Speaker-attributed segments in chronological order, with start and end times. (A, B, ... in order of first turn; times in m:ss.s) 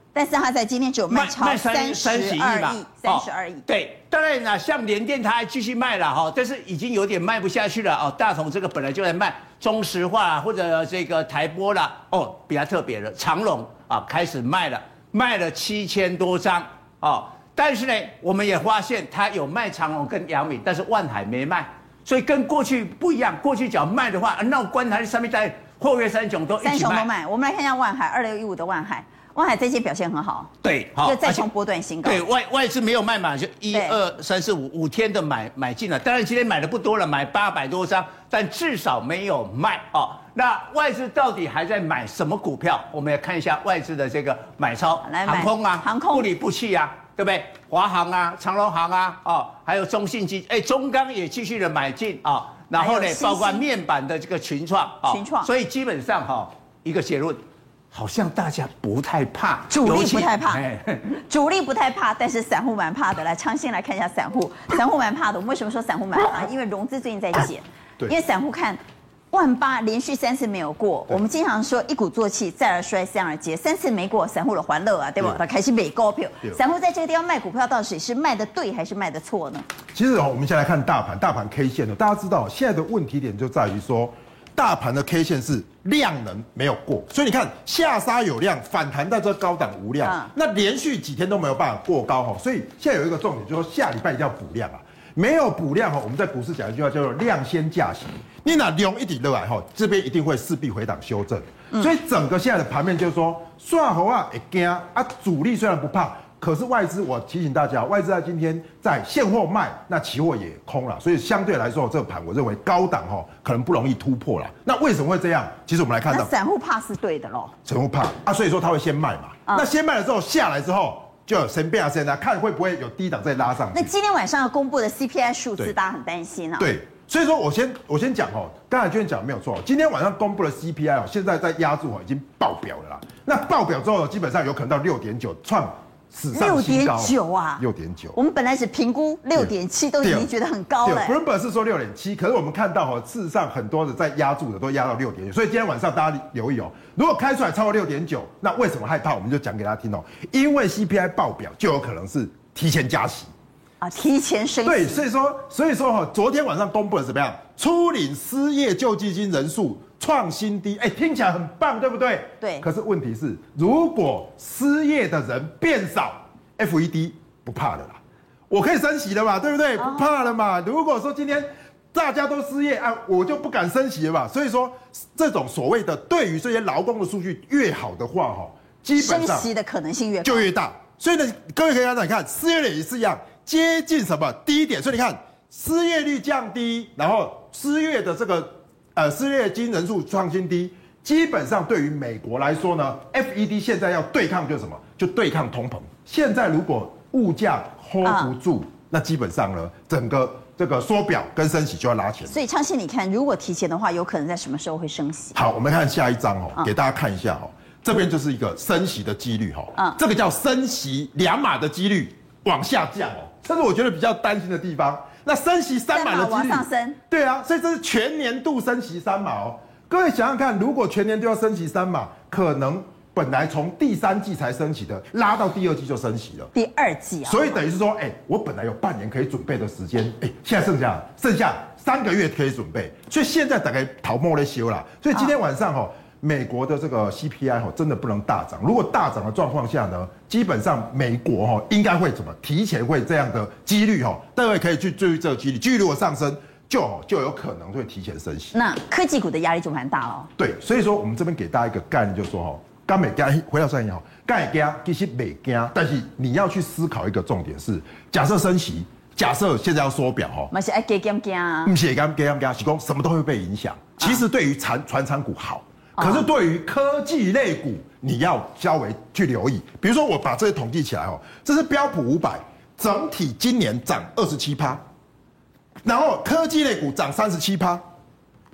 0:00.1-0:03.6 A
0:01.1-0:27.1 B
0:26.6-0:32.2 A
0:30.6-0:31.4 B
0:32.0-1:01.2 B
0:33.7-0:34.0 A
0:45.0-0:46.3 A
0:52.8-0:53.6 A
0:55.0-0:55.5 A
0:59.7-1:00.6 A
1:01.3-1:19.6 A
1:19.9-1:56.3 C
1:30.0-1:30.3 A
1:56.1-1:57.5 A
1:57.6-2:03.9 C
2:03.7-2:06.7 A
2:06.6-2:18.2 C
2:16.3-2:17.6 A
2:18.1-2:21.1 A
2:19.3-2:20.3 C
2:20.8-2:33.3 C
2:33.8-2:35.0 A
2:34.6-2:48.0 C
2:42.4-2:42.6 A
2:48.5-2:59.5 C
2:49.8-2:50.1 A
2:59.0-3:00.5 A
3:00.2-3:22.3 C
3:18.0-3:18.3 A
3:22.3-3:25.4 A
3:25.3-3:46.5 C
3:35.9-3:37.0 A
3:46.5-3:47.6 A
3:47.2-4:08.5 C
4:08.5-4:10.3 A
4:10.4-4:20.5 C
4:20.5-4:21.7 A
4:21.6-4:34.8 C
4:26.0-4:26.2 A
4:35.8-4:37.8 C